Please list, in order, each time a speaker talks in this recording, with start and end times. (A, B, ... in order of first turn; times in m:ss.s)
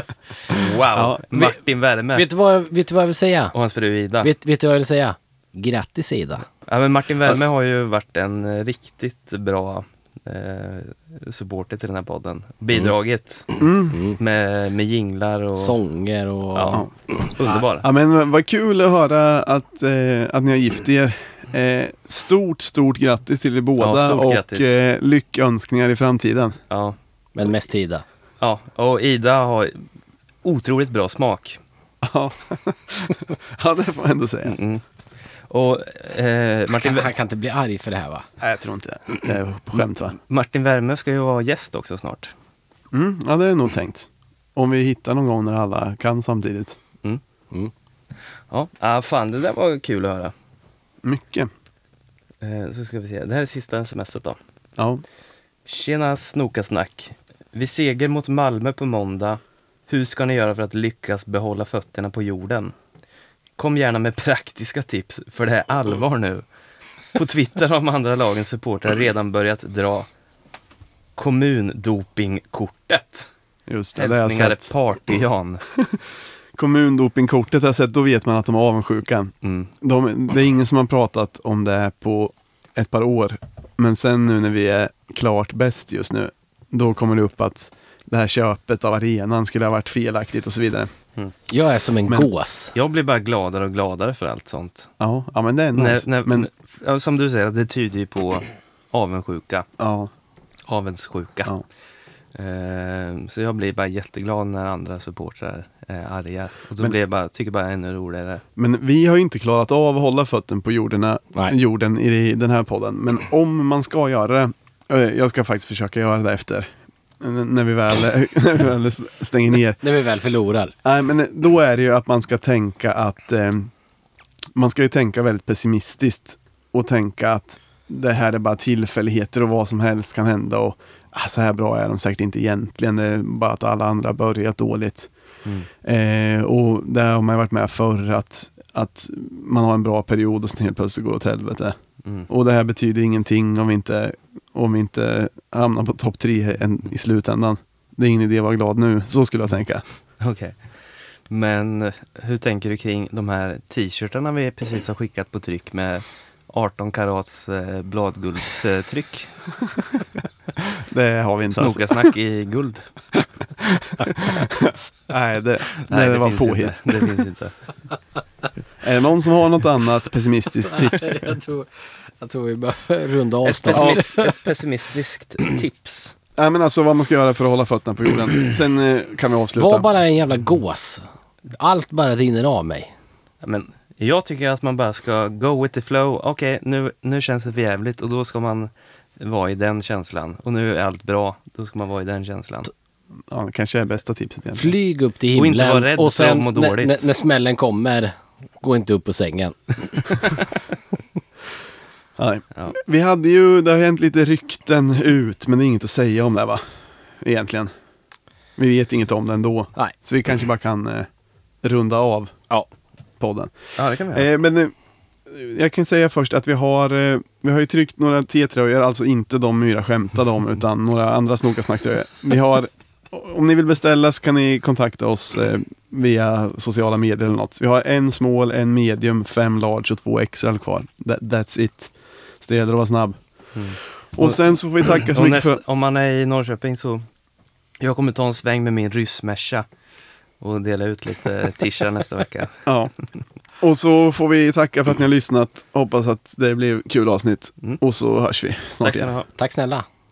0:00.5-0:02.3 A
0:00.9-0:01.6 B
0:02.1-0:03.5 C
0:03.5-0:04.3 A
0:04.2-0:06.5 C
0:06.7-0:13.6 A
0:13.6-0:14.0 B
0:13.9-0:14.2 C
0:14.2-0:15.8 A
0:15.6-0:17.6 C
0:16.6-0:17.9 A
0:17.8-0:26.6 B
0:23.8-0:24.8 A
0:26.7-0:27.0 A
0:27.4-0:28.0 C
0:28.4-0:29.8 A
0:30.4-0:31.6 A
0:32.0-0:34.6 B
0:34.4-0:34.8 A
0:35.5-0:37.1 A
0:36.7-0:38.3 C
0:38.4-0:40.2 B
0:40.2-0:42.3 A
0:42.9-0:46.8 B
0:48.5-0:50.3 A
0:51.0-0:51.5 B
0:52.4-0:54.4 A
0:54.8-0:55.0 B
0:55.7-1:02.7 A
1:03.6-1:06.4 A
1:07.2-1:10.1 A
1:11.2-1:13.3 A
1:13.7-1:14.7 B
1:14.0-1:15.6 A
1:16.6-1:30.9 B
1:19.4-1:19.7 A
1:31.5-1:32.7 C
1:32.8-1:34.9 A
1:35.0-1:36.5 B
1:35.7-1:39.7 A
1:39.8-1:40.1 B
1:40.7-1:41.5 A
1:42.4-1:48.4 A
1:48.6-1:59.8 B
1:59.8-2:00.7 C
2:00.8-2:03.7 B
2:04.6-2:15.1 B
2:15.8-2:21.8 B
2:22.3-2:29.8 B
2:30.2-2:30.6 A
2:31.3-2:39.3 A
2:40.7-2:42.1 B
2:41.5-2:42.9 A
2:43.6-2:47.1 B
2:45.8-2:47.5 A
2:48.8-2:51.1 B
2:50.7-2:54.4 C
2:53.4-2:56.2 A
2:53.7-2:54.0 B
2:56.4-2:59.9 B
2:59.6-3:02.9 C
3:03.4-3:12.7 A
3:13.3-3:14.7 B
3:14.6-3:20.3 C
3:15.4-3:17.1 A
3:22.2-3:26.6 B
3:27.2-3:27.7 B
3:28.6-3:31.1 B
3:31.6-3:32.3 B
3:33.2-3:33.5 B
3:33.8-3:34.3 A
3:34.1-3:34.7 B
3:35.3-3:53.2 B
3:53.6-3:54.3 A
3:54.1-3:55.6 B
3:55.0-3:57.0 A
3:57.8-3:59.7 A
4:00.4-4:02.6 A
4:02.7-4:02.9 B
4:03.6-4:09.1 B
4:08.8-4:09.3 A
4:09.4-4:09.9 C